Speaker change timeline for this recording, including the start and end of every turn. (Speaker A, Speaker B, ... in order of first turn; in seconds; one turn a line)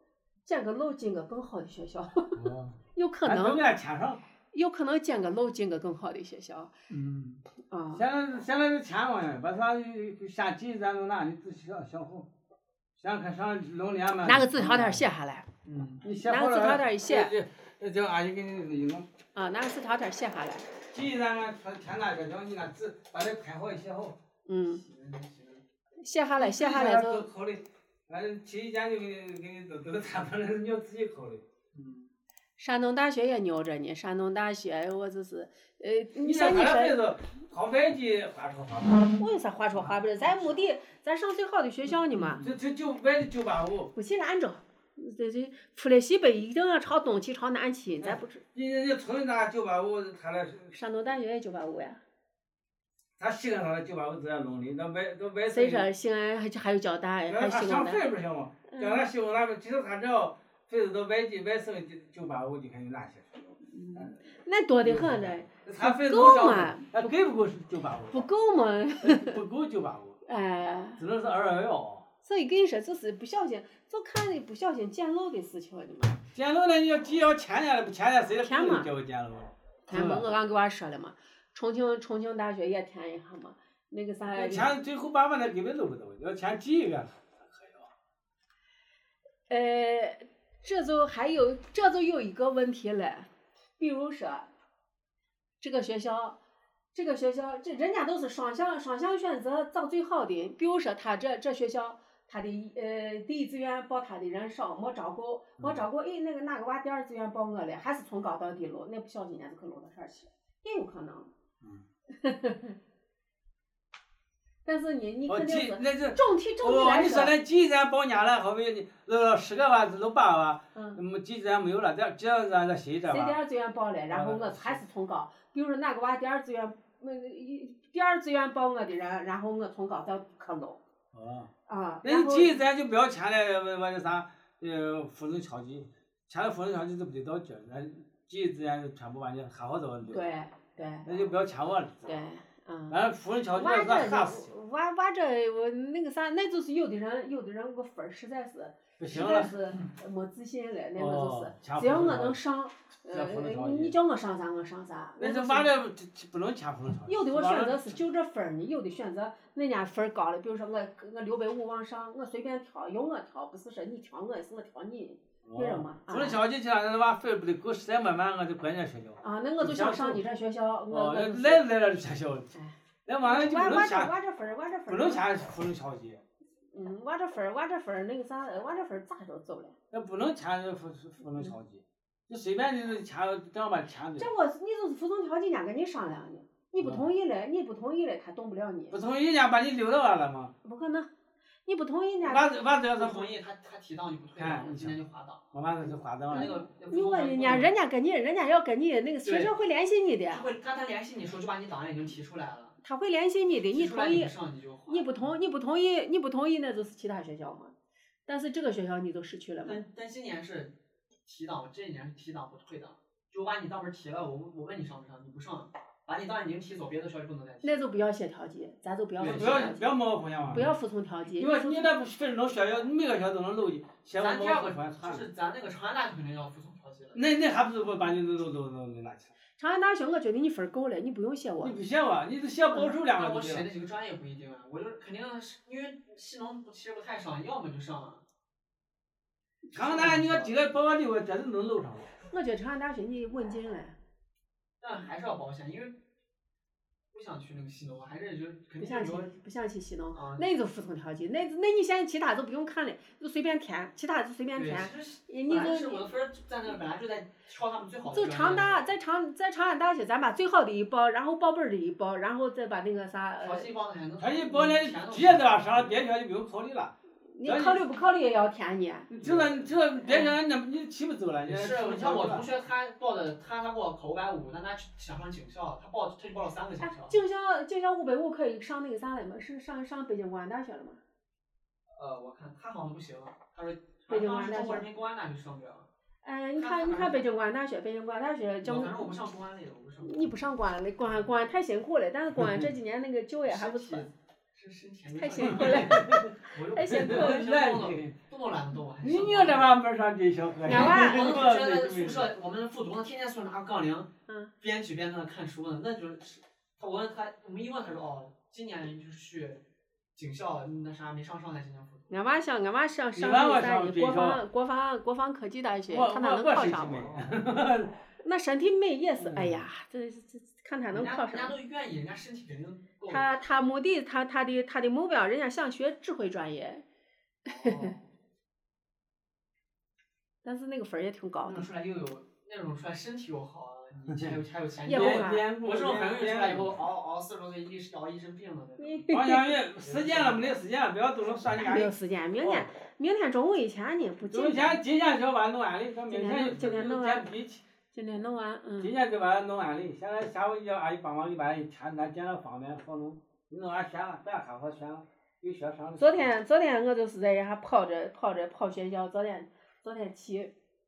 Speaker A: 0.4-2.4
Speaker B: 2.4-4.2
Speaker A: 2.9-3.6
Speaker A: 4.5-6.7
Speaker B: 6.9-7.4
Speaker A: 7.7-8.0
Speaker B: 7.9-12.3
Speaker B: 13.0-15.0
Speaker A: 14.2-15.5
Speaker C: 15.6-16.0
Speaker B: 16.0-19.1
Speaker A: 16.1-17.3
Speaker A: 19.3-20.7
Speaker B: 20.9-24.1
Speaker A: 24.5-24.8
Speaker C: 24.6-25.6
Speaker A: 26.0-27.2
Speaker B: 26.4-31.4
Speaker C: 31.7-32.1
Speaker A: 32.6-37.0
Speaker B: 36.2-39.2
Speaker A: 39.2-42.5
Speaker B: 42.1-43.9
Speaker A: 43.9-48.4
Speaker B: 48.0-50.8
Speaker A: 50.7-52.0
Speaker B: 53.2-55.9
Speaker A: 55.5-58.0
Speaker B: 57.3-64.1
Speaker A: 58.7-59.1
Speaker A: 63.7-67.3
Speaker B: 64.8-68.3
Speaker A: 68.1-69.4
Speaker B: 69.0-70.2
Speaker A: 70.2-71.0
Speaker B: 71.0-72.0
Speaker A: 72.2-76.2
Speaker B: 76.3-80.3
Speaker A: 78.4-78.9
Speaker A: 79.9-84.7
Speaker B: 84.3-87.9
Speaker A: 89.5-94.5
Speaker A: 95.6-96.4
Speaker A: 96.9-111.3
Speaker A: 112.1-112.8
Speaker A: 114.6-117.3
Speaker B: 115.3-123.4
Speaker A: 120.7-121.0
Speaker A: 123.1-130.8
Speaker B: 124.1-124.8
Speaker B: 131.1-131.5
Speaker A: 131.7-132.5
Speaker B: 132.0-140.3
Speaker A: 140.1-141.1
Speaker B: 141.0-142.1
Speaker A: 142.0-143.0
Speaker B: 142.9-144.5
Speaker A: 143.5-155.7
Speaker B: 149.0-149.5
Speaker B: 150.9-152.4
Speaker B: 153.1-153.9
Speaker B: 155.2-157.9
Speaker A: 157.1-166.4
Speaker B: 165.4-170.2
Speaker A: 169.2-171.7
Speaker B: 170.9-172.5
Speaker A: 172.5-175.2
Speaker B: 173.1-174.1
Speaker B: 174.9-176.2
Speaker A: 176.7-179.8
Speaker B: 179.9-184.3
Speaker A: 184.2-189.0
Speaker B: 186.8-187.1
Speaker B: 188.9-190.5
Speaker A: 190.6-191.1
Speaker A: 191.6-192.6
Speaker B: 192.2-193.3
Speaker C: 192.9-195.5
Speaker B: 194.4-195.0
Speaker B: 195.5-196.6
Speaker C: 196.3-197.7
Speaker A: 196.3-200.4
Speaker C: 199.2-199.5
Speaker C: 200.3-202.8
Speaker A: 202.8-204.3
Speaker C: 203.7-205.3
Speaker A: 204.9-207.7
Speaker A: 208.2-209.8
Speaker C: 209.6-210.7
Speaker C: 211.2-217.9
Speaker A: 217.6-219.8
Speaker C: 219.2-219.8
Speaker B: 219.2-220.7
Speaker A: 220.5-221.9
Speaker B: 221.3-225.2
Speaker C: 224.1-227.2
Speaker B: 227.1-229.3
Speaker A: 229.6-231.8
Speaker B: 231.6-233.7
Speaker C: 233.1-238.2
Speaker C: 239.7-240.5
Speaker B: 239.7-242.1
Speaker A: 242.3-243.9
Speaker C: 244.8-246.0
Speaker C: 247.1-249.3
Speaker A: 248.8-256.1
Speaker C: 250.1-250.5
Speaker C: 254.5-258.9
Speaker A: 258.1-263.7
Speaker C: 263.4-265.9
Speaker B: 264.2-266.9
Speaker A: 267.3-269.1
Speaker B: 267.4-267.8
Speaker B: 269.1-272.4
Speaker C: 269.2-269.7
Speaker A: 270.0-270.4
Speaker C: 271.5-277.2
Speaker A: 276.8-281.0
Speaker C: 281.9-285.9
Speaker A: 284.1-284.9
Speaker A: 286.2-289.1
Speaker C: 286.6-287.2
Speaker C: 288.6-290.4
Speaker A: 290.0-294.1
Speaker B: 292.4-292.6
Speaker C: 293.4-299.7
Speaker A: 295.1-297.4
Speaker B: 295.4-298.1
Speaker B: 299.0-302.3
Speaker A: 300.6-301.3
Speaker C: 300.7-304.1
Speaker A: 304.3-304.5
Speaker C: 304.6-309.6
Speaker C: 310.1-312.1
Speaker A: 312.1-317.1
Speaker B: 313.1-314.4
Speaker B: 315.9-318.0
Speaker C: 316.9-317.3
Speaker A: 318.2-321.6
Speaker B: 319.2-319.6
Speaker C: 320.9-323.3
Speaker A: 323.1-326.8
Speaker C: 327.5-328.1
Speaker A: 327.6-327.9
Speaker A: 330.4-331.7
Speaker C: 331.4-339.2
Speaker A: 334.9-335.4
Speaker B: 334.9-336.7
Speaker A: 338.8-339.6
Speaker B: 339.1-342.7
Speaker C: 339.8-340.6
Speaker A: 341.5-344.8
Speaker B: 344.3-347.6
Speaker A: 346.1-347.3
Speaker A: 347.9-348.9
Speaker B: 348.8-356.3
Speaker A: 356.0-360.5